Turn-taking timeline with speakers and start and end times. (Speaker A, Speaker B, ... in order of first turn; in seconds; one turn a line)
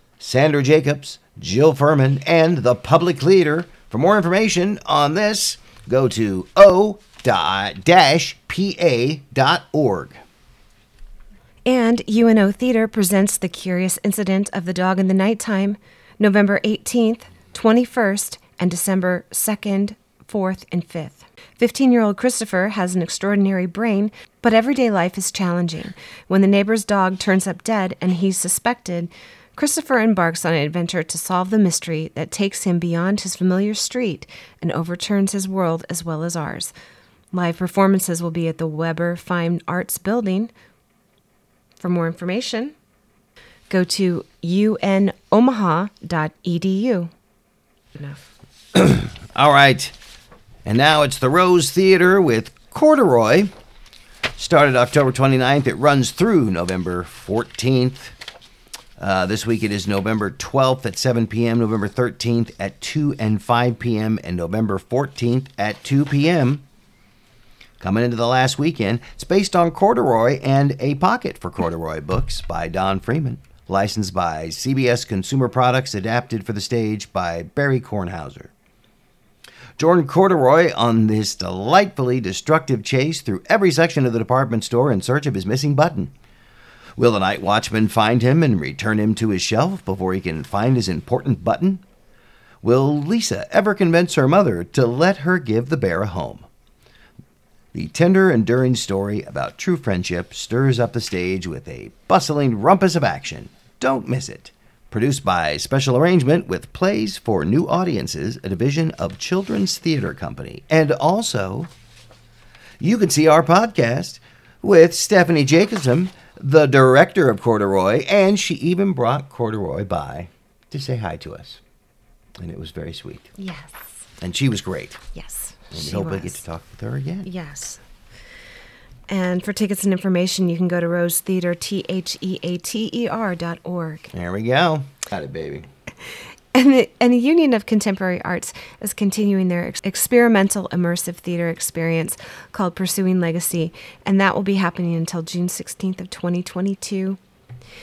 Speaker A: 0.2-10.2
Speaker B: 11.7-36.7
Speaker B: 37.3-40.5
Speaker B: 41.8-42.7
Speaker B: 43.7-47.1
Speaker A: 48.7-49.9
Speaker A: 50.6-53.5
Speaker A: 54.4-58.1
Speaker A: 59.0-66.6
Speaker A: 67.8-78.5
Speaker A: 79.8-86.1
Speaker A: 87.0-91.8
Speaker A: 92.6-96.4
Speaker A: 97.7-111.7
Speaker A: 112.8-121.6
Speaker A: 122.4-123.3
Speaker B: 123.4-123.9
Speaker A: 124.2-125.0
Speaker B: 125.1-126.4
Speaker A: 125.7-127.3
Speaker B: 127.2-127.8
Speaker B: 129.1-134.1
Speaker A: 134.1-135.7
Speaker B: 136.5-147.2